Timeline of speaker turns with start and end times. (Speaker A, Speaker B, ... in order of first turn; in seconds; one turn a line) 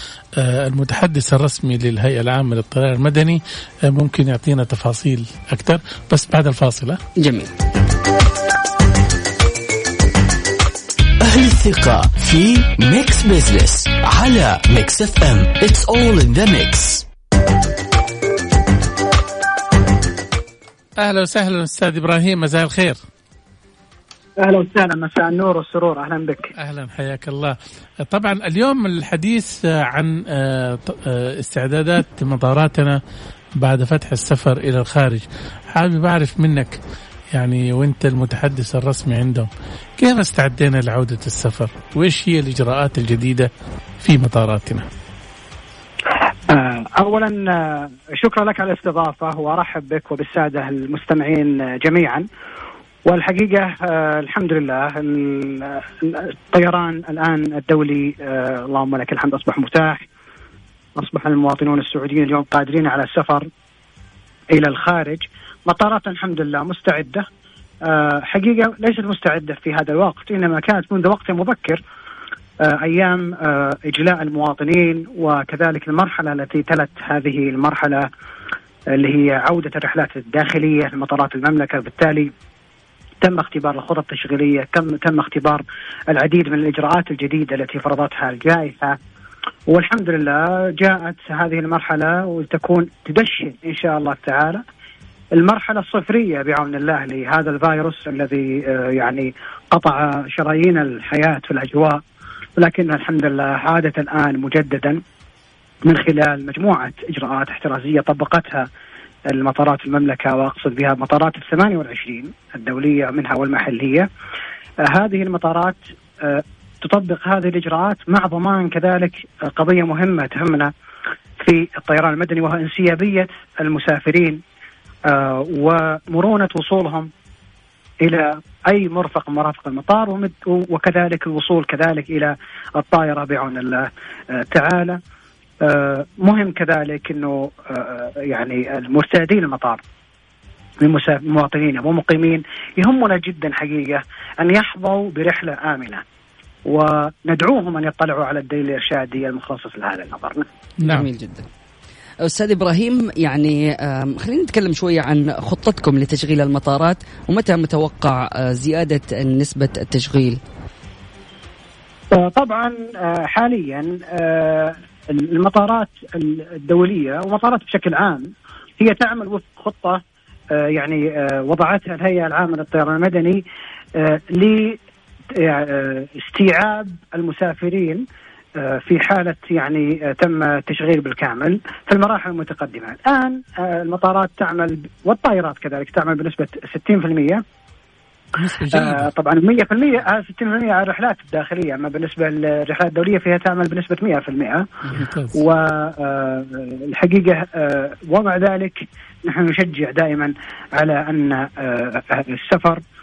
Speaker A: 0.3-7.0
Speaker B: 7.2-7.6
Speaker C: 11.2-17.1
Speaker A: 21.0-23.0
Speaker D: 24.4-26.5
Speaker A: 26.6-33.0
Speaker A: 33.6-36.8
Speaker A: 37.3-43.5
Speaker A: 44.0-44.9
Speaker D: 46.5-52.3
Speaker D: 53.1-60.0
Speaker D: 61.0-63.5
Speaker D: 64.5-67.3
Speaker D: 67.8-71.8
Speaker D: 72.6-78.1
Speaker D: 78.9-82.3
Speaker D: 83.2-89.0
Speaker D: 89.7-94.6
Speaker D: 95.3-102.0
Speaker D: 102.6-105.0
Speaker D: 105.9-108.7
Speaker D: 109.3-114.1
Speaker D: 114.8-120.7
Speaker D: 121.4-124.4
Speaker D: 125.1-127.1
Speaker D: 128.0-135.0
Speaker D: 135.6-139.8
Speaker D: 140.8-146.0
Speaker D: 146.7-150.5
Speaker B: 150.8-151.5
Speaker B: 152.2-160.4
Speaker D: 162.1-170.0
Speaker D: 170.5-173.4
Speaker D: 173.9-174.8
Speaker D: 175.3-178.0
Speaker D: 178.6-187.4
Speaker A: 188.4-189.1
Speaker D: 188.7-194.7
Speaker A: 194.9-195.4
Speaker D: 195.3-202.8